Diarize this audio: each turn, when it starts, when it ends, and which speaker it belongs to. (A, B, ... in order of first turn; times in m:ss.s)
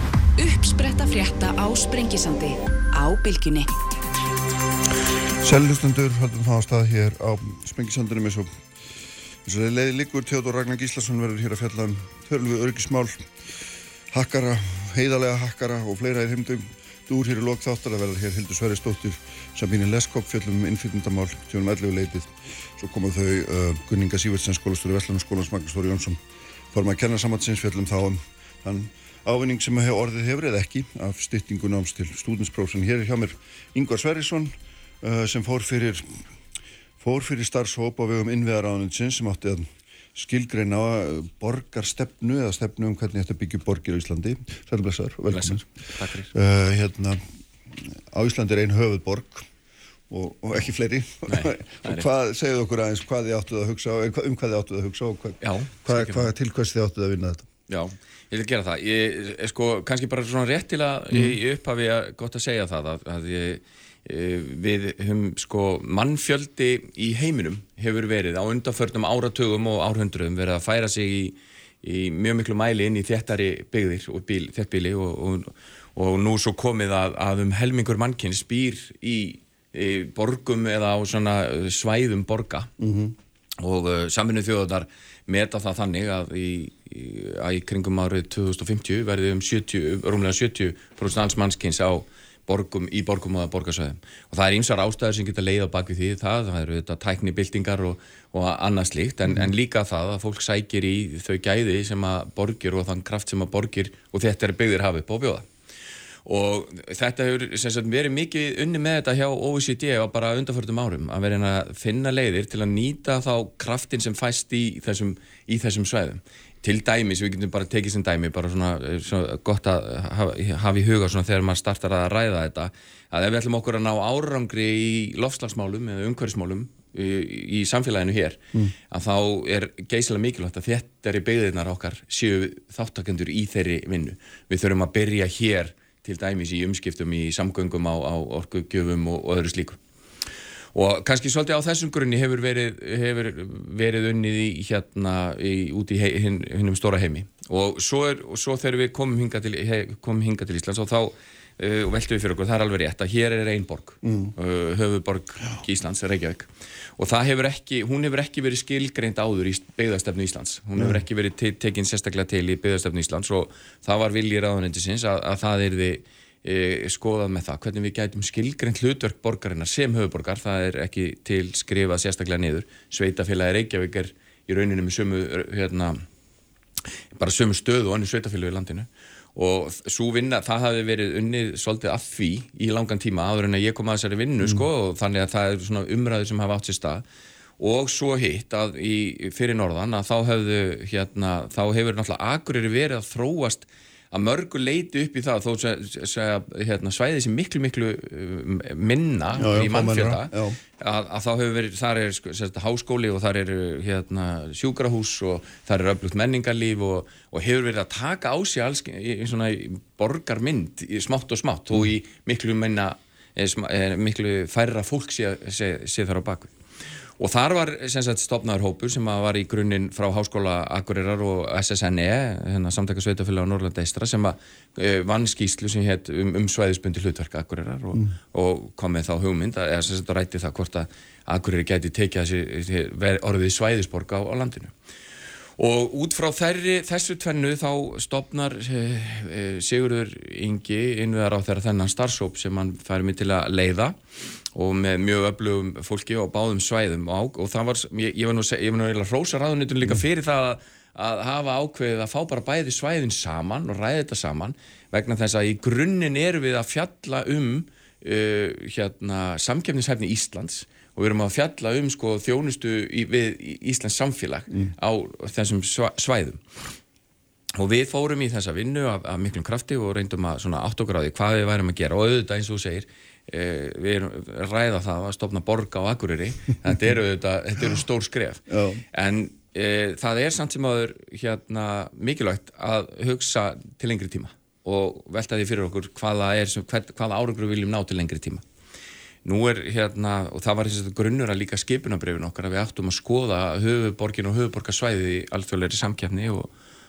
0:00.4-0:03.7 A
0:05.4-0:08.5 B
0:09.4-0:13.3 B
0:14.1-0:26.2 B
0:26.7-0:36.2 B
0:37.0-0:45.7 B
0:45.3-0:46.3 C
0:46.3-0:49.5 B
0:50.1-0:57.5 B
0:51.3-0:52.1 C
0:55.4-0:56.3 C
0:57.7-1:22.7 C
1:22.8-1:23.2 B
1:23.6-1:45.5 C
1:46.3-2:19.8 C
2:20.7-2:56.0 C
2:34.0-2:34.3 B
2:57.1-3:07.0 C
3:07.6-3:36.5 C
3:19.4-3:20.6 B
3:37.2-3:54.7 C
3:55.6-4:04.0 C
4:04.6-4:26.4 C
4:27.6-4:48.4 C
4:38.5-4:38.8 B
4:49.2-4:56.5 C